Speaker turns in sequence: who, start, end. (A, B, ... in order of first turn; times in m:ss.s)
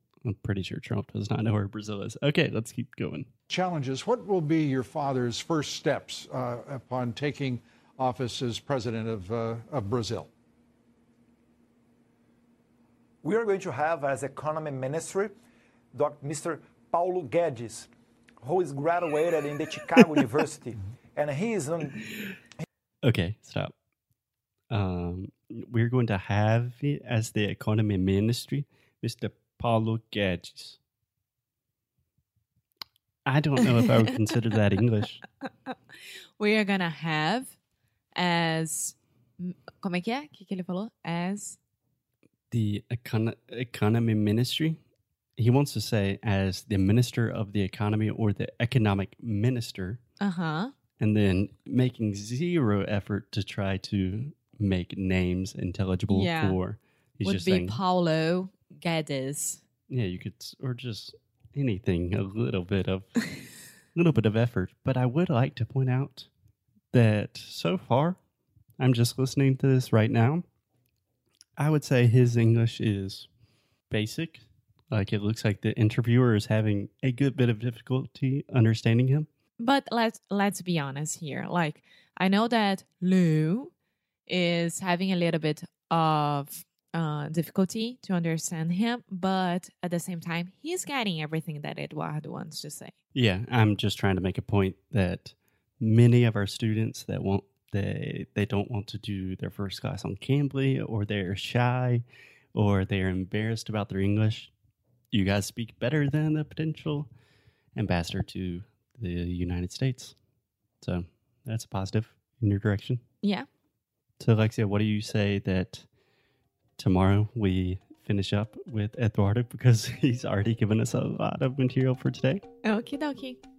0:00.2-0:03.3 A
0:03.5-0:10.3 B
0:13.2-0:15.4 C
0:15.9-0:17.9 C
0:18.4-0:22.1 C
0:23.0-0:23.7 A
0:24.7-0:30.8 A
0:33.3-0:35.2 A
0:36.4-0:37.6 D
0:38.2-0:41.6 D
0:42.5-0:44.8 A
0:45.4-0:50.0 A
0:50.2-0:50.7 D
0:51.0-0:57.8 A
0:56.1-0:56.6 D
0:57.2-0:59.6 D
0:59.9-1:03.2 A
1:04.0-1:06.3 A
1:06.9-1:08.2 A
1:08.8-1:10.4 A
1:11.6-1:13.3 A
1:13.9-1:19.3 A
1:19.6-1:23.7 D
1:24.3-1:32.9 D
1:33.1-1:42.0 A
1:42.6-1:44.5 A
1:45.1-1:47.1 A
1:47.8-1:50.2 A
1:50.8-1:53.0 A
1:54.2-1:55.9 A
1:56.8-2:02.4 A
2:02.6-2:03.4 D